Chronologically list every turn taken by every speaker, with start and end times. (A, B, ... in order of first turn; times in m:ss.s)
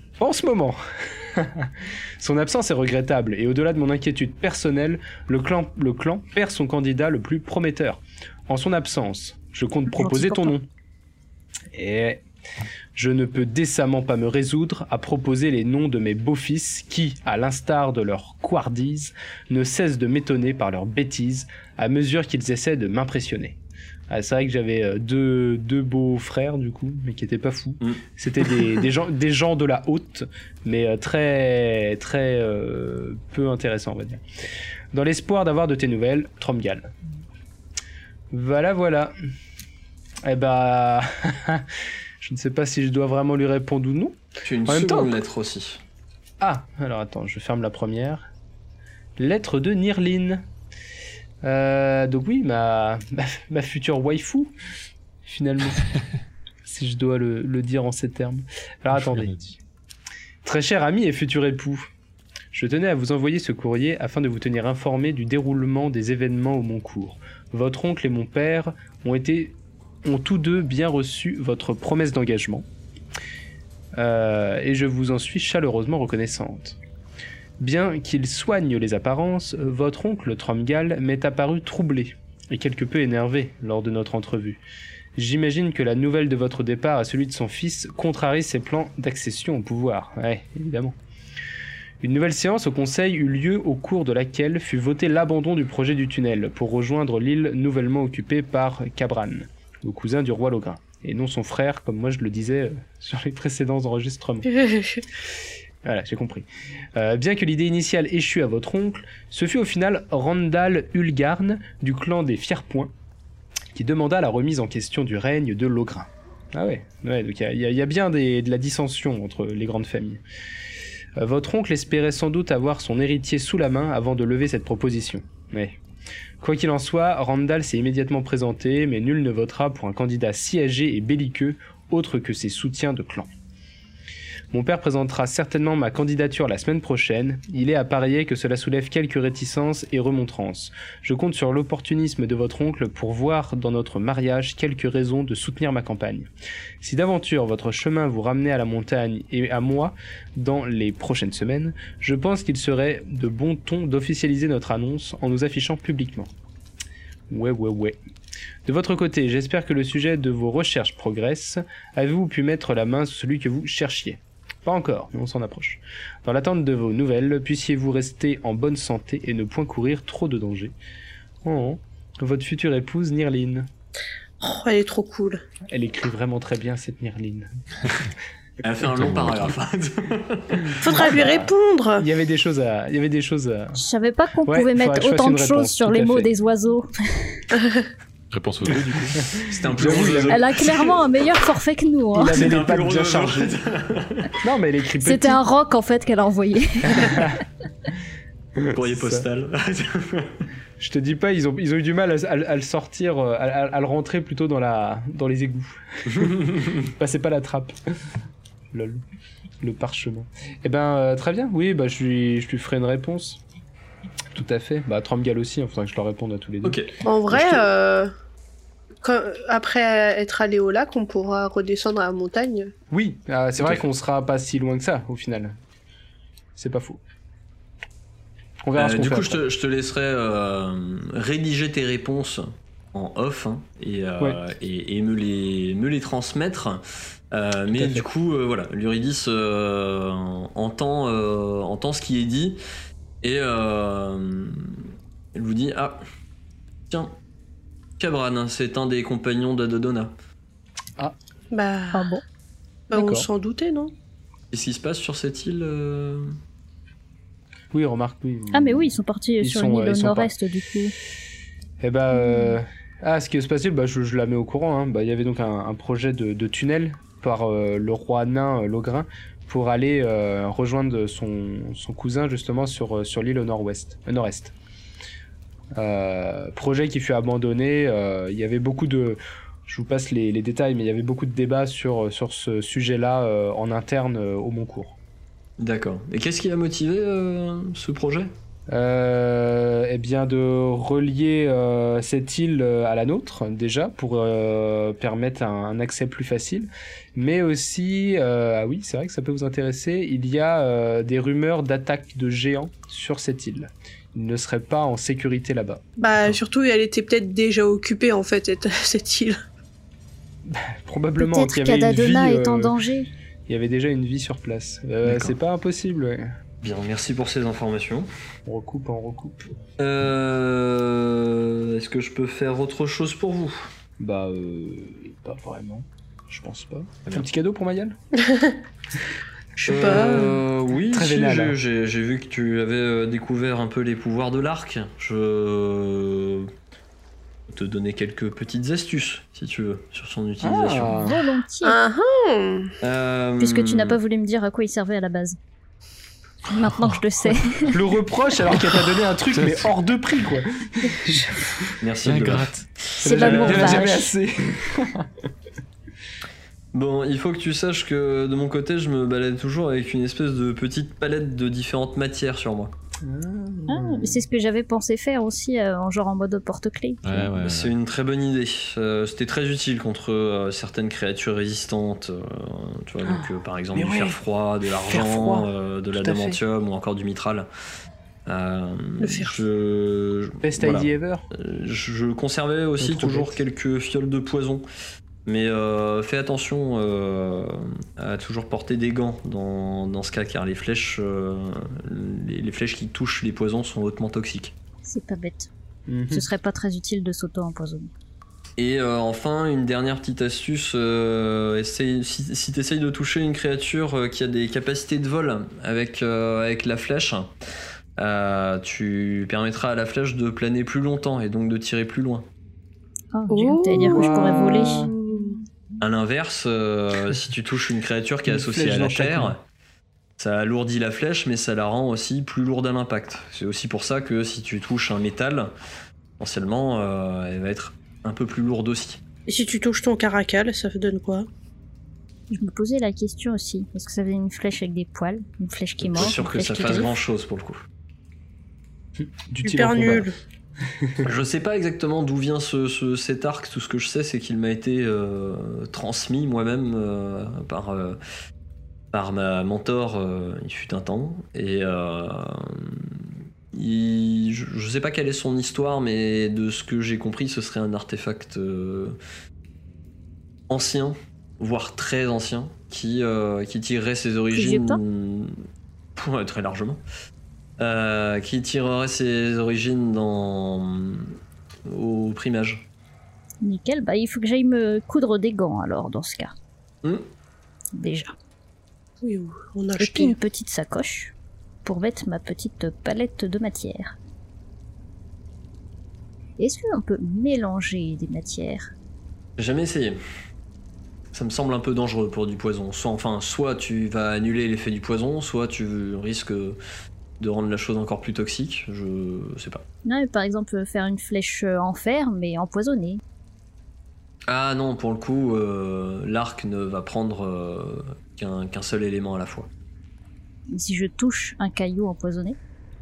0:00.2-0:10.7 A
0:09.9-0:10.5 B
0:11.7-0:12.2 A
0:13.0-0:23.6 A
0:24.1-0:34.2 A
0:34.9-0:36.9 A
0:38.3-0:39.1 A
0:40.2-0:41.7 A
0:42.2-0:45.2 A
0:44.4-0:45.8 C
0:46.4-0:48.3 A
0:49.2-0:50.4 A
0:51.4-0:54.5 A
0:55.2-0:55.9 A
0:56.6-0:59.6 A
1:00.4-1:01.9 A
1:02.5-1:12.7 A
1:14.0-1:16.8 A
1:17.6-1:24.6 A
1:25.2-1:31.0 A
1:32.0-1:44.5 A
1:44.6-1:45.0 D
1:45.8-1:52.9 A
1:53.7-2:00.2 A
2:01.2-2:05.8 A
2:06.4-2:13.3 A
2:14.5-2:26.3 A
2:26.8-2:36.3 A
2:37.3-2:38.0 A
2:38.7-2:50.8 A
2:51.4-2:53.7 A
2:54.4-2:55.4 D
2:55.7-2:57.5 A
2:58.6-3:01.4 C
2:59.0-2:59.5 E
3:00.8-3:02.1 D
3:02.0-3:03.8 A
3:03.8-3:07.4 B
3:04.5-3:06.3 A
3:08.3-3:09.3 E
3:09.4-3:11.0 C
3:09.7-3:10.5 A
3:10.3-3:12.4 B
3:12.1-3:13.5 A
3:12.3-3:14.3 C
3:14.4-3:15.4 A
3:15.0-3:17.3 B
3:16.9-3:17.4 A
3:18.6-3:19.2 A
3:18.7-3:20.4 C
3:20.8-3:27.8 A
3:26.1-3:26.8 C
3:28.7-3:29.0 A
3:29.6-3:33.4 A
3:34.3-3:37.5 A
3:36.6-3:37.6 C
3:37.0-3:38.1 D
3:39.0-3:42.7 D
3:42.9-3:45.6 A
3:46.6-3:47.0 A
3:48.6-3:49.4 A
3:48.8-4:02.6 C
3:57.7-3:58.1 A
4:03.2-4:06.0 C
4:06.9-4:07.2 C
4:08.0-4:10.1 C
4:11.5-4:12.1 D
4:11.9-4:12.2 B
4:12.9-4:13.9 D
4:12.9-4:13.3 A
4:14.5-4:16.4 C
4:17.7-4:20.3 A
4:18.5-4:21.0 B
4:21.8-4:34.6 A
4:35.7-4:45.0 A
4:45.6-4:48.3 C
4:48.7-5:05.8 A
5:06.0-5:09.4 D
5:10.4-5:12.7 A
5:11.2-5:13.1 B
5:13.5-5:16.3 A
5:15.0-5:15.4 C
5:16.6-5:18.1 C
5:18.5-5:19.5 A
5:19.8-5:23.7 C
5:24.0-5:28.0 A
5:28.2-5:28.6 D
5:29.6-5:30.4 D
5:29.7-5:36.5 C
5:29.7-5:31.6 A
5:37.5-5:41.1 C
5:40.4-5:41.2 A
5:41.0-5:41.8 B
5:41.6-5:42.7 D
5:42.8-5:44.0 C
5:43.4-5:45.4 B
5:46.5-5:47.8 B
5:47.7-5:51.7 A
5:51.8-5:53.8 C
5:52.0-5:52.7 E
5:53.0-5:54.1 B
5:53.0-5:55.2 A
5:56.7-6:02.7 C
6:03.0-6:04.3 A
6:03.7-6:07.3 B
6:07.0-6:07.8 E
6:07.4-6:17.5 C
6:13.0-6:14.2 A
6:14.8-6:16.4 A
6:18.3-6:24.6 C
6:19.0-6:19.3 D
6:20.4-6:21.3 A
6:22.8-6:23.4 A
6:25.3-6:34.6 C
6:34.8-6:35.5 B
6:35.9-6:36.3 A
6:36.1-6:37.9 B
6:38.6-6:47.3 C
6:48.0-6:52.3 C
6:53.1-6:54.9 B
6:53.3-6:55.4 D
6:54.5-6:54.9 A
6:55.8-6:59.4 C
6:58.3-6:59.4 A
7:00.2-7:05.5 C
7:06.2-7:09.0 C
7:09.3-7:11.3 D
7:12.3-7:17.0 B
7:15.8-7:17.6 C
7:19.0-7:20.1 A
7:19.4-7:20.2 D
7:20.7-7:21.1 A
7:21.0-7:28.0 C
7:28.9-7:39.0 C
7:40.5-7:45.4 C
7:44.3-7:44.8 B
7:46.0-7:46.8 C
7:47.6-7:52.7 C
7:53.4-7:56.3 B
7:57.8-7:58.1 B
7:59.0-8:00.2 D
7:59.8-8:01.1 B
8:01.6-8:04.0 B
8:06.4-8:08.7 B
8:09.4-8:10.0 C
8:11.1-8:16.6 C
8:17.2-8:19.6 C
8:19.8-8:23.0 B
8:24.3-8:29.5 C
8:30.5-8:32.4 B